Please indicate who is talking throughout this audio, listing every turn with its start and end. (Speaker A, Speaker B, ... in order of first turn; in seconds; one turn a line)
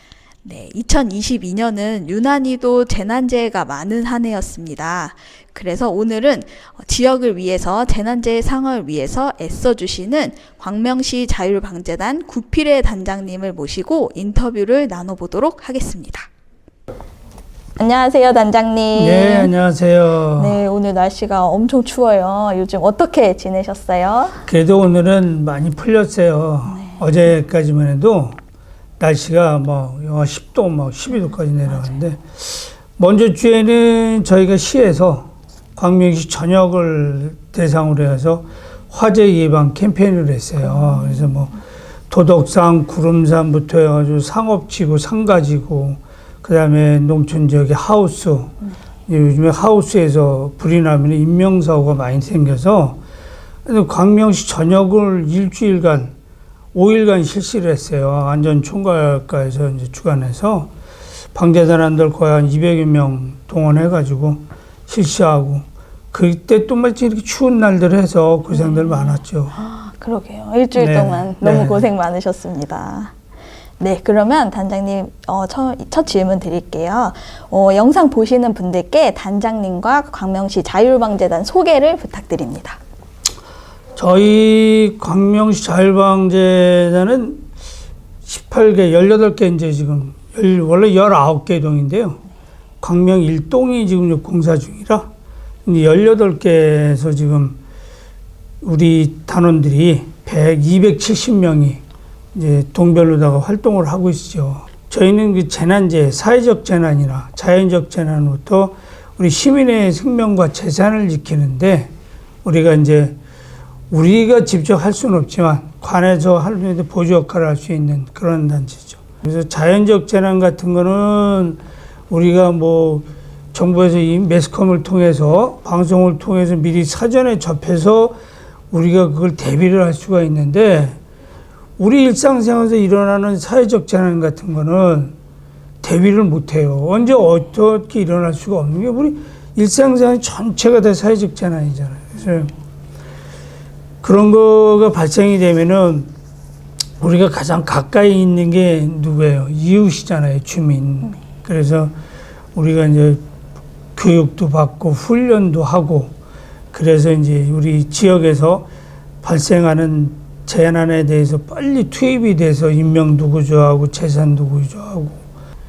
Speaker A: 0.4-16.3
Speaker A: 17.8-19.5
Speaker B: 18.9-20.6
Speaker A: 20.4-24.4
Speaker B: 24.5-28.4
Speaker A: 26.8-27.0
Speaker B: 29.0-41.5
Speaker B: 42.1-48.5
Speaker B: 49.1-53.0
Speaker B: 53.6-56.1
Speaker B: 56.7-60.7
Speaker B: 61.3-69.5
Speaker A: 68.5-73.1
Speaker B: 70.8-71.9
Speaker A: 73.8-82.8
Speaker B: 83.9-87.4
Speaker B: 88.2-92.2
Speaker B: 92.8-95.1
Speaker B: 95.6-97.6
Speaker B: 98.6-101.8
Speaker B: 102.3-111.9
Speaker B: 112.4-113.2
Speaker B: 113.9-128.2
Speaker B: 128.7-131.0
Speaker B: 131.8-135.1
Speaker B: 135.8-142.5
Speaker B: 144.0-146.1
Speaker B: 147.0-151.9
Speaker B: 152.5-153.2
Speaker B: 153.9-156.1
Speaker B: 156.7-158.7
Speaker B: 159.2-165.2